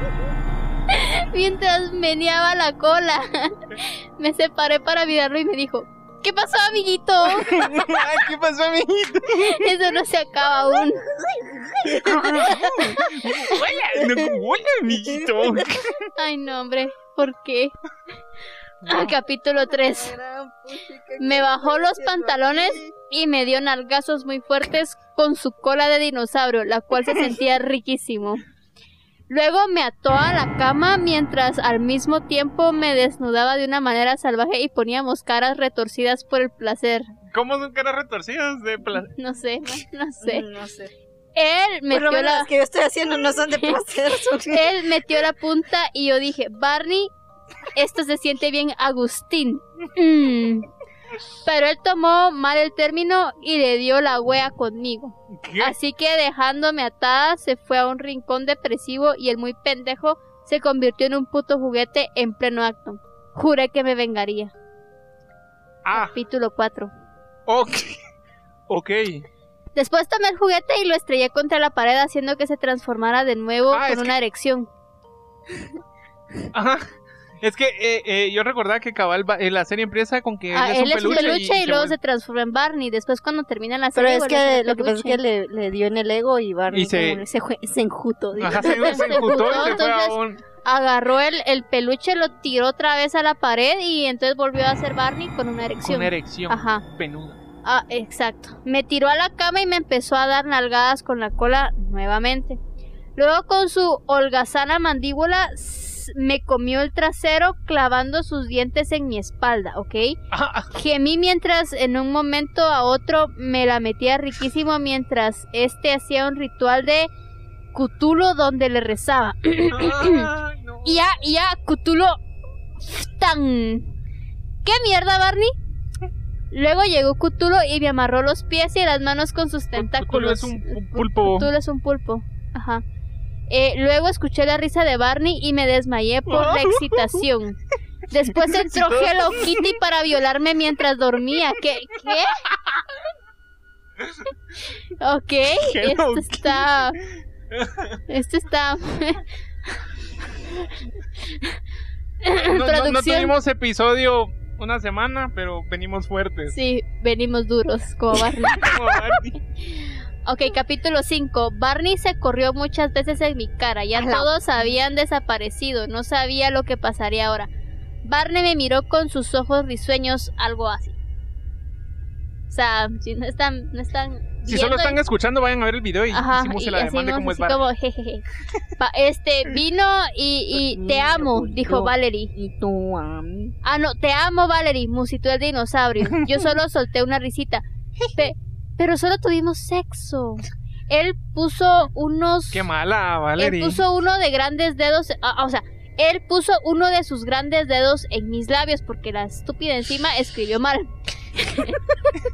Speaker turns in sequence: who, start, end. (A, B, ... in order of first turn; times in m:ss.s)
0:00.9-0:07.9 A
0:07.2-0:09.7 B
0:09.3-0:11.0 A
0:10.4-0:14.3 C
0:11.8-0:16.1 B
0:14.9-0:15.7 C
0:16.2-0:17.7 A
0:18.8-0:19.1 B
0:18.9-0:20.1 A
0:19.7-0:22.9 C
0:21.2-0:28.4 A
0:29.3-0:37.1 A
0:37.3-0:39.1 B
0:39.2-0:40.4 A
0:40.2-0:40.9 C
0:41.3-0:42.5 A
0:41.9-0:44.7 C
0:44.5-0:47.1 A
0:47.7-0:50.7 A
0:51.4-1:04.5 A
0:55.3-0:55.7 B
1:05.8-1:06.2 B
1:05.9-1:06.9 A
1:07.5-1:08.0 B
1:08.7-1:09.3 B
1:09.7-1:14.7 A
1:13.7-1:14.1 B
1:16.5-1:16.9 B
1:17.4-1:21.9 B
1:20.5-1:25.2 A
1:21.1-1:21.4 C
1:23.9-1:29.8 C
1:26.7-1:27.2 B
1:28.4-1:30.4 B
1:28.6-1:36.8 A
1:35.8-1:37.4 B
1:37.6-1:42.6 A
1:43.2-1:50.2 A
1:50.3-1:50.7 B
1:50.7-1:57.1 A
1:57.7-2:00.3 A
1:59.7-2:01.0 B
2:00.8-2:02.2 A
2:02.8-2:03.9 A
2:04.6-2:05.5 A
2:06.5-2:12.8 A
2:09.7-2:11.5 B
2:13.5-2:17.6 A
2:16.3-2:17.2 B
2:18.1-2:22.4 A
2:18.3-2:19.7 B
2:22.4-2:22.8 B
2:25.0-2:27.0 A
2:25.5-2:26.6 B
2:27.5-2:28.0 B
2:28.1-2:29.2 A
2:32.2-2:33.3 A
2:32.3-2:36.5 B
2:36.5-2:47.5 A
2:38.4-2:39.4 B
2:43.9-2:44.8 C
2:48.0-2:51.0 A
2:52.5-2:55.0 A
2:54.4-2:57.6 B
2:56.1-2:58.2 A
2:58.8-3:02.3 A
3:00.5-3:03.5 C
3:03.6-3:07.6 A
3:08.2-3:12.6 A
3:12.5-3:13.8 B
3:13.4-3:21.9 A